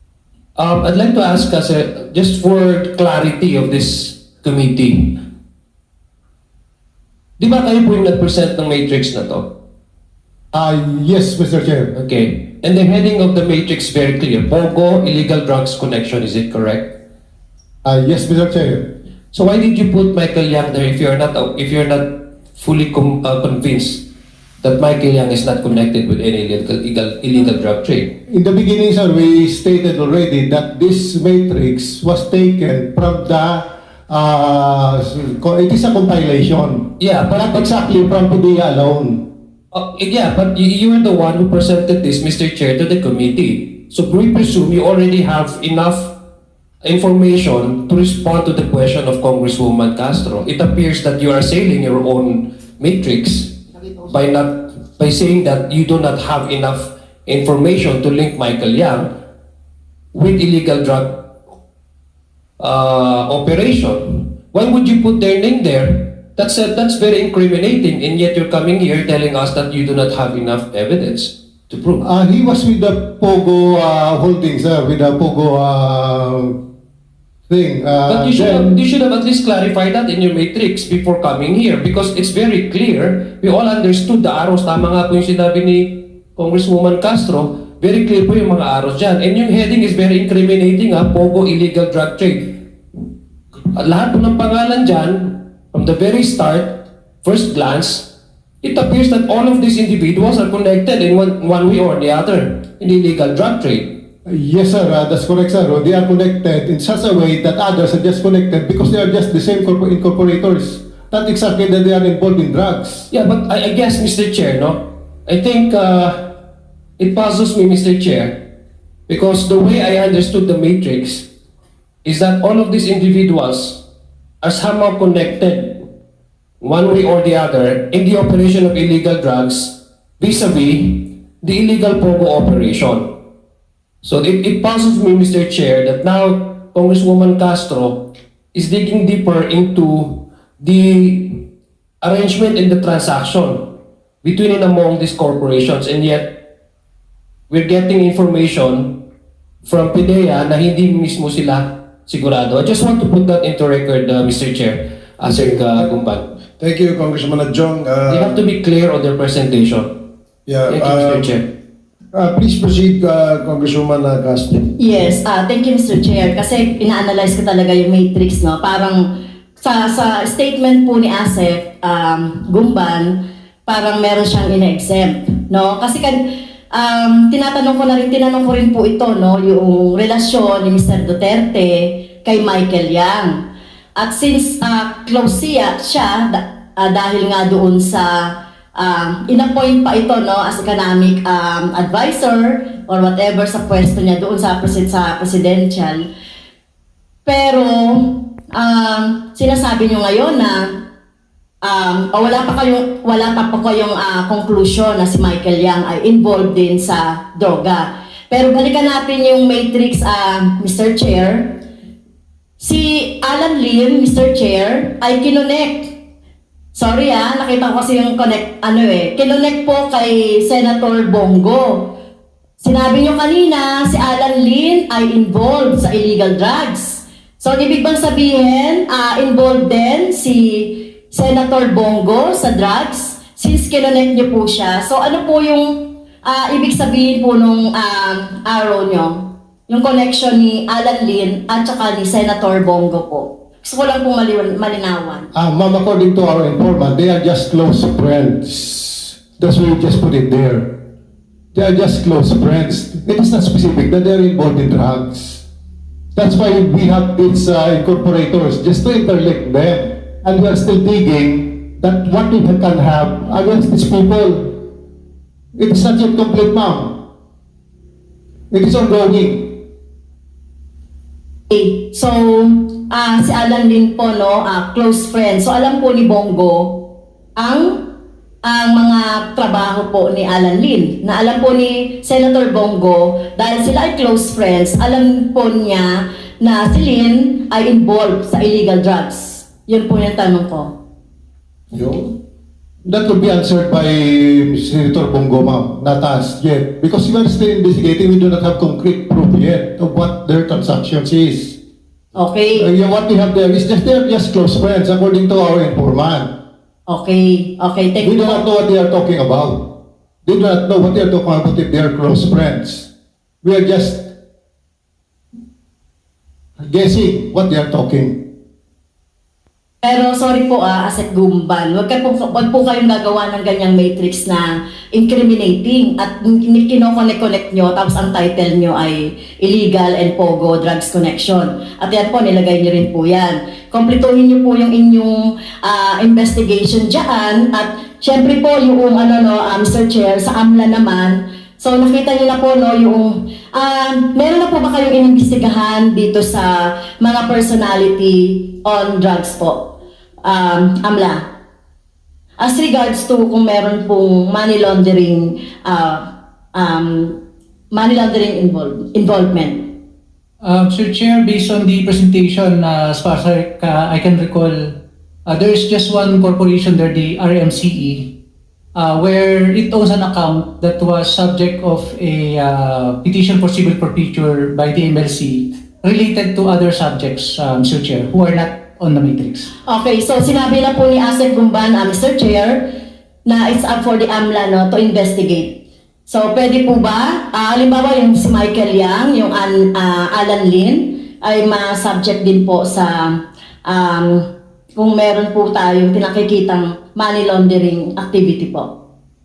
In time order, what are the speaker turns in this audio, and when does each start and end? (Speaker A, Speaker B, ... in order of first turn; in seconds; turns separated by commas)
Speaker A: 0.6-5.2, Speaker A: 7.4-9.5, Speaker B: 10.5-11.9, Speaker A: 11.9-16.9, Speaker B: 17.8-18.9, Speaker A: 19.3-24.0, Speaker A: 24.6-28.1, Speaker B: 28.3-39.3, Speaker A: 37.0-37.7, Speaker A: 39.7-46.1, Speaker A: 46.8-59.1, Speaker A: 60.1-61.2, Speaker A: 62.6-72.0, Speaker B: 72.0-76.6, Speaker B: 77.5-78.8, Speaker A: 78.1-92.6, Speaker A: 93.7-98.1, Speaker A: 98.6-104.0, Speaker B: 104.2-113.1, Speaker A: 113.1-116.4, Speaker A: 117.0-118.4, Speaker A: 119.1-121.3, Speaker A: 122.0-123.8, Speaker A: 124.4-125.8, Speaker A: 126.6-133.1, Speaker A: 134.0-141.5, Speaker A: 142.0-146.4, Speaker A: 147.5-149.0, Speaker A: 149.6-156.2, Speaker C: 155.2-155.9, Speaker C: 156.6-158.4, Speaker A: 158.1-159.9, Speaker C: 160.5-161.3, Speaker A: 160.7-161.4, Speaker C: 162.1-164.7, Speaker D: 164.8-169.1, Speaker D: 169.6-183.4, Speaker D: 184.0-196.1, Speaker D: 197.2-200.7, Speaker D: 201.6-211.6, Speaker D: 212.6-215.9, Speaker D: 216.7-222.0, Speaker D: 222.6-245.3, Speaker B: 245.3-250.8, Speaker B: 251.5-255.4, Speaker B: 256.1-264.7, Speaker B: 265.5-267.0, Speaker B: 268.5-269.6, Speaker D: 271.5-276.9, Speaker D: 277.4-277.9, Speaker D: 278.4-290.7, Speaker B: 291.7-292.1, Speaker B: 292.8-301.6, Speaker D: 302.1-302.7, Speaker B: 302.6-306.3, Speaker D: 306.9-308.4, Speaker B: 308.0-312.9, Speaker B: 313.4-314.1, Speaker B: 316.6-318.2, Speaker D: 319.8-349.7, Speaker D: 350.2-351.3, Speaker D: 352.4-357.2, Speaker D: 357.7-359.7, Speaker E: 360.4-368.1, Speaker E: 368.8-379.5, Speaker D: 379.7-382.7, Speaker D: 383.2-398.7